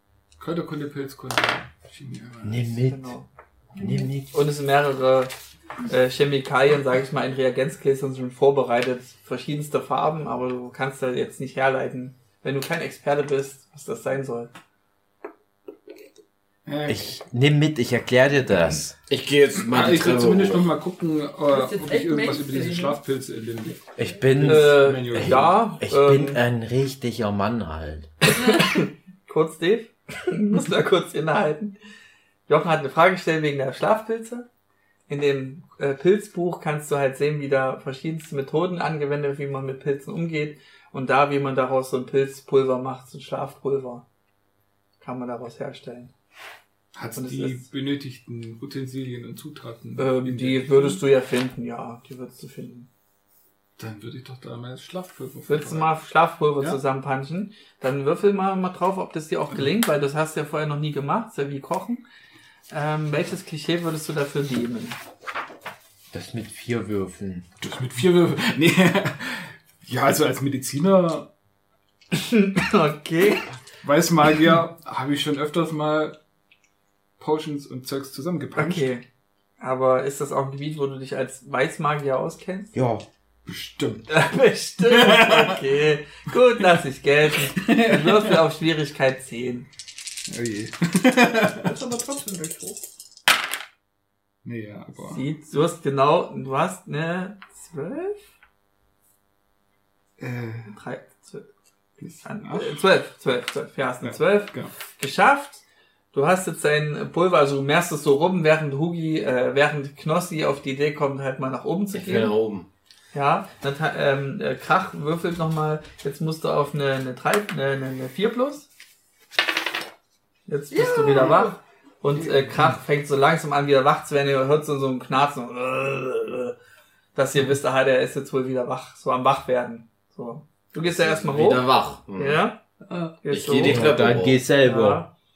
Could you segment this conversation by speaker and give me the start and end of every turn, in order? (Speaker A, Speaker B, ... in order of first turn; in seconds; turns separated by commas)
Speaker A: 0.4-2.6, Speaker B: 2.4-3.1, Speaker C: 2.9-3.3, Speaker D: 3.8-4.1, Speaker B: 3.8-4.3, Speaker C: 4.3-5.3, Speaker C: 5.8-14.5, Speaker A: 16.7-17.1, Speaker B: 16.9-18.9, Speaker E: 19.1-20.7, Speaker A: 19.7-25.6, Speaker D: 21.5-23.0, Speaker B: 24.0-28.1, Speaker C: 24.4-26.4, Speaker C: 28.3-31.8, Speaker C: 32.5-34.5, Speaker C: 35.1-44.0, Speaker C: 45.0-46.1, Speaker A: 47.0-51.0, Speaker C: 47.1-47.7, Speaker C: 50.0-52.9, Speaker A: 53.8-55.9, Speaker C: 55.5-62.0, Speaker C: 62.7-65.0, Speaker B: 66.1-67.5, Speaker A: 67.6-71.3, Speaker C: 72.1-73.5, Speaker A: 73.8-76.2, Speaker A: 77.2-78.9, Speaker C: 78.6-79.0, Speaker C: 79.6-82.7, Speaker B: 82.7-83.0, Speaker A: 83.5-84.1, Speaker C: 84.1-89.7, Speaker A: 84.8-85.6, Speaker A: 87.6-88.4, Speaker A: 90.3-91.7, Speaker D: 91.6-92.8, Speaker A: 94.4-95.2, Speaker C: 95.0-98.2, Speaker A: 100.2-100.7, Speaker C: 100.7-101.5, Speaker A: 102.0-102.8, Speaker C: 102.2-112.3, Speaker A: 104.0-104.7, Speaker E: 111.9-112.7, Speaker C: 113.1-118.7, Speaker C: 120.5-126.5, Speaker D: 120.7-121.5, Speaker A: 122.2-122.7, Speaker C: 127.2-132.6, Speaker E: 130.8-132.4, Speaker D: 132.9-133.2, Speaker C: 133.2-135.1, Speaker E: 133.3-134.4, Speaker B: 133.6-135.0